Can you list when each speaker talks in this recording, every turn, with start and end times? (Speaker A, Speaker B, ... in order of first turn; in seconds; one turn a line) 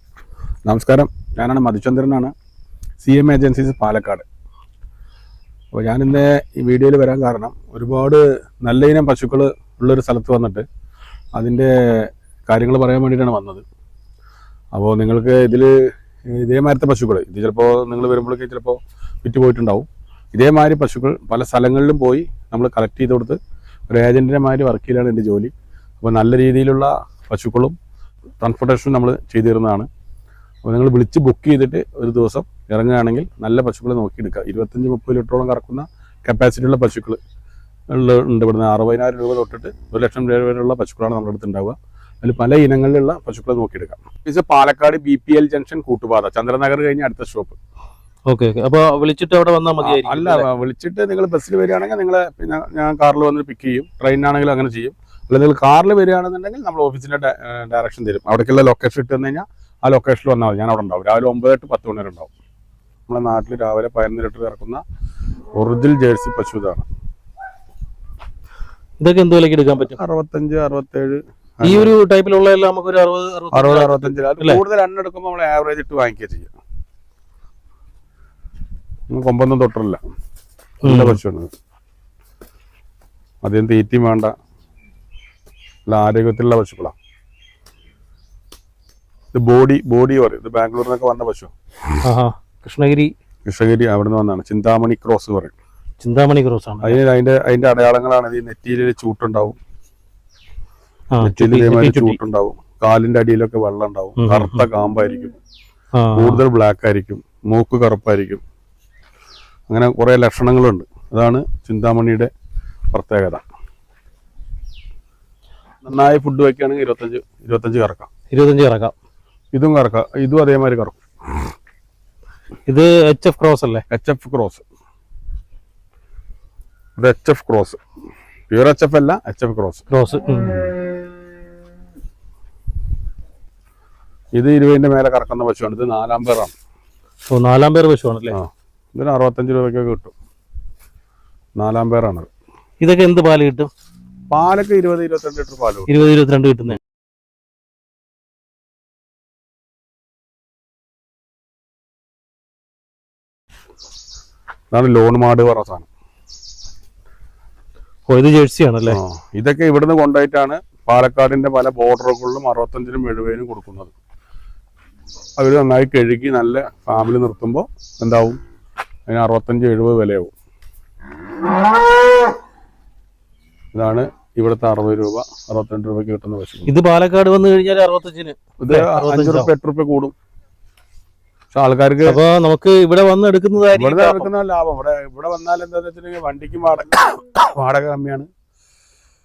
Speaker A: 0.7-2.3
Speaker A: 3.0-4.2
Speaker A: 5.8-10.7
Speaker A: 11.4-13.6
Speaker A: 14.7-15.7
Speaker A: 16.3-23.4
Speaker A: 23.9-27.8
Speaker A: 28.4-29.9
Speaker A: 30.6-37.2
Speaker A: 37.9-47.6
Speaker B: 48.3-50.5
Speaker A: 49.8-62.3
Speaker A: 63.1-64.8
Speaker A: 65.6-66.9
Speaker B: 69.0-70.0
Speaker A: 69.8-72.0
Speaker B: 71.6-74.6
Speaker A: 73.5-76.5
Speaker A: 79.1-80.0
Speaker B: 80.8-81.2
Speaker A: 80.8-81.5
Speaker A: 83.4-84.3
Speaker A: 85.9-87.0
Speaker A: 89.3-91.5
Speaker B: 92.0-93.1
Speaker A: 93.5-95.5
Speaker B: 96.0-97.0
Speaker A: 96.8-99.6
Speaker B: 101.1-102.2
Speaker A: 101.2-105.3
Speaker B: 104.2-104.7
Speaker B: 106.0-106.4
Speaker A: 106.2-108.4
Speaker A: 109.7-112.3
Speaker A: 112.9-113.4
Speaker A: 115.8-118.1
Speaker B: 118.3-118.9
Speaker A: 119.5-121.0
Speaker B: 122.7-123.8
Speaker A: 123.9-124.6
Speaker A: 127.0-127.8
Speaker A: 128.5-129.8
Speaker B: 129.9-130.7
Speaker A: 134.3-136.5
Speaker B: 137.3-138.4
Speaker A: 138.3-140.1
Speaker A: 141.6-142.3
Speaker B: 142.8-143.7
Speaker A: 144.3-145.9
Speaker B: 145.9-146.8
Speaker A: 154.7-155.9
Speaker B: 158.1-159.0
Speaker A: 158.9-163.9
Speaker A: 165.4-168.4
Speaker A: 169.1-170.3
Speaker A: 173.7-176.7
Speaker B: 176.7-179.5
Speaker A: 178.6-180.1
Speaker A: 181.5-182.2
Speaker B: 182.1-184.3
Speaker A: 183.8-188.3